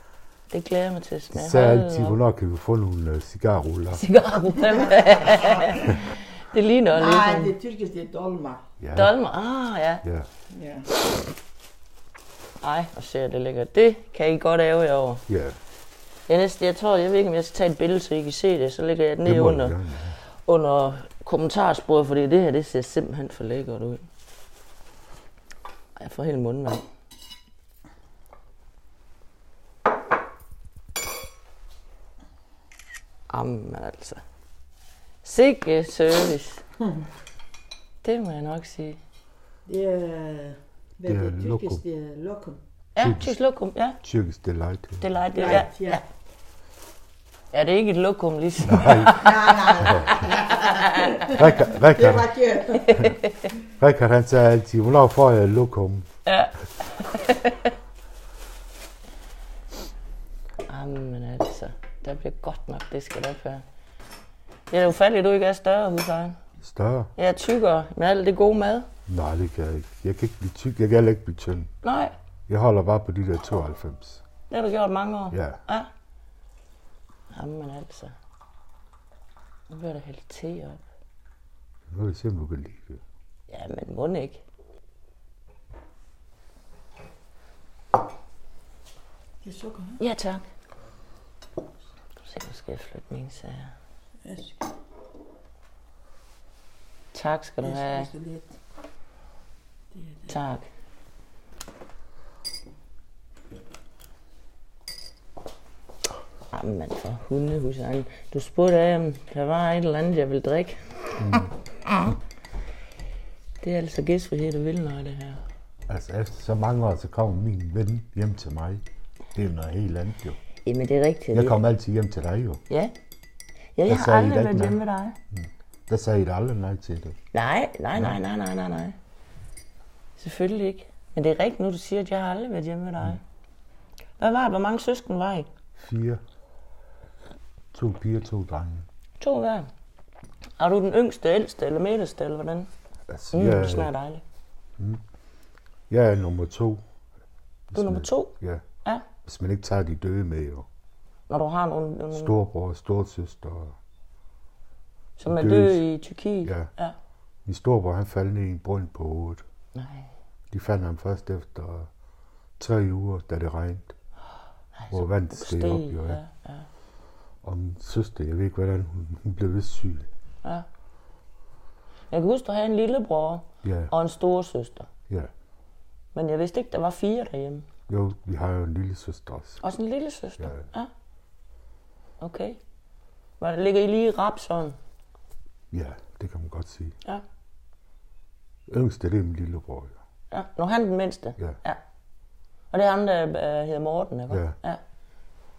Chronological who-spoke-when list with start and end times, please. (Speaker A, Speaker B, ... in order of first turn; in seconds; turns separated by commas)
Speaker A: 0.5-2.2, Speaker B: 1.3-4.0, Speaker A: 3.9-7.5, Speaker C: 6.9-8.7, Speaker B: 8.8-9.2, Speaker A: 8.9-10.0, Speaker B: 10.0-10.3, Speaker C: 10.5-10.9, Speaker A: 12.6-15.3, Speaker B: 15.3-15.6, Speaker A: 16.3-19.8, Speaker B: 19.2-20.2, Speaker A: 20.4-24.1, Speaker A: 26.0-26.9, Speaker A: 33.3-34.2, Speaker A: 35.2-36.6, Speaker A: 38.0-39.0, Speaker C: 39.7-42.6, Speaker B: 41.0-41.8, Speaker A: 43.0-44.0, Speaker B: 43.0-43.4, Speaker B: 44.0-45.2, Speaker A: 45.0-46.0, Speaker C: 45.4-46.0, Speaker A: 47.5-51.4, Speaker B: 48.6-50.3, Speaker C: 49.0-53.1, Speaker B: 51.3-52.4, Speaker A: 52.7-53.5, Speaker B: 53.8-56.1, Speaker A: 56.3-57.7, Speaker A: 60.7-63.6, Speaker A: 64.7-66.4, Speaker B: 66.6-67.1, Speaker A: 67.2-68.9, Speaker B: 69.1-71.7, Speaker A: 71.8-72.2, Speaker B: 72.5-74.2, Speaker A: 74.5-75.9, Speaker B: 75.3-75.6, Speaker A: 77.3-78.2, Speaker A: 79.7-80.8, Speaker B: 81.9-83.0, Speaker A: 83.5-84.4, Speaker C: 89.4-90.0, Speaker A: 90.0-90.5, Speaker A: 92.2-93.7, Speaker C: 94.2-94.7, Speaker A: 97.1-98.1, Speaker C: 97.6-98.6, Speaker C: 99.9-100.3, Speaker A: 100.3-100.7, Speaker A: 106.5-111.4, Speaker B: 111.2-111.5, Speaker A: 113.6-115.4, Speaker B: 115.9-118.8, Speaker B: 119.3-120.4, Speaker A: 120.6-121.6, Speaker B: 121.3-122.6, Speaker A: 122.7-122.9, Speaker A: 123.8-125.2, Speaker B: 123.9-124.8, Speaker B: 125.3-127.2, Speaker A: 127.3-129.0, Speaker B: 127.9-128.2, Speaker A: 130.2-133.2, Speaker A: 134.2-135.5, Speaker B: 135.8-136.2, Speaker B: 137.7-138.9, Speaker A: 139.2-139.7, Speaker A: 140.6-142.7, Speaker B: 143.1-143.9, Speaker A: 143.3-144.2, Speaker B: 145.9-146.8, Speaker B: 147.7-148.7, Speaker A: 147.7-149.1, Speaker B: 149.2-150.7, Speaker A: 151.3-152.4, Speaker B: 152.1-153.8, Speaker A: 155.2-156.9, Speaker B: 155.3-155.8, Speaker B: 156.4-156.7, Speaker B: 157.4-159.4, Speaker A: 159.8-160.1, Speaker B: 160.5-161.9, Speaker B: 162.6-163.9, Speaker A: 164.8-166.7, Speaker B: 164.9-166.2, Speaker B: 167.4-170.1, Speaker A: 172.1-174.9, Speaker B: 173.6-173.9, Speaker A: 176.2-177.7, Speaker B: 177.9-179.6, Speaker A: 179.6-180.9, Speaker B: 180.4-180.7, Speaker A: 182.2-182.6, Speaker A: 183.4-184.8, Speaker B: 185.7-186.9, Speaker B: 188.7-190.0, Speaker A: 190.3-191.8, Speaker A: 192.7-194.8, Speaker B: 194.3-194.6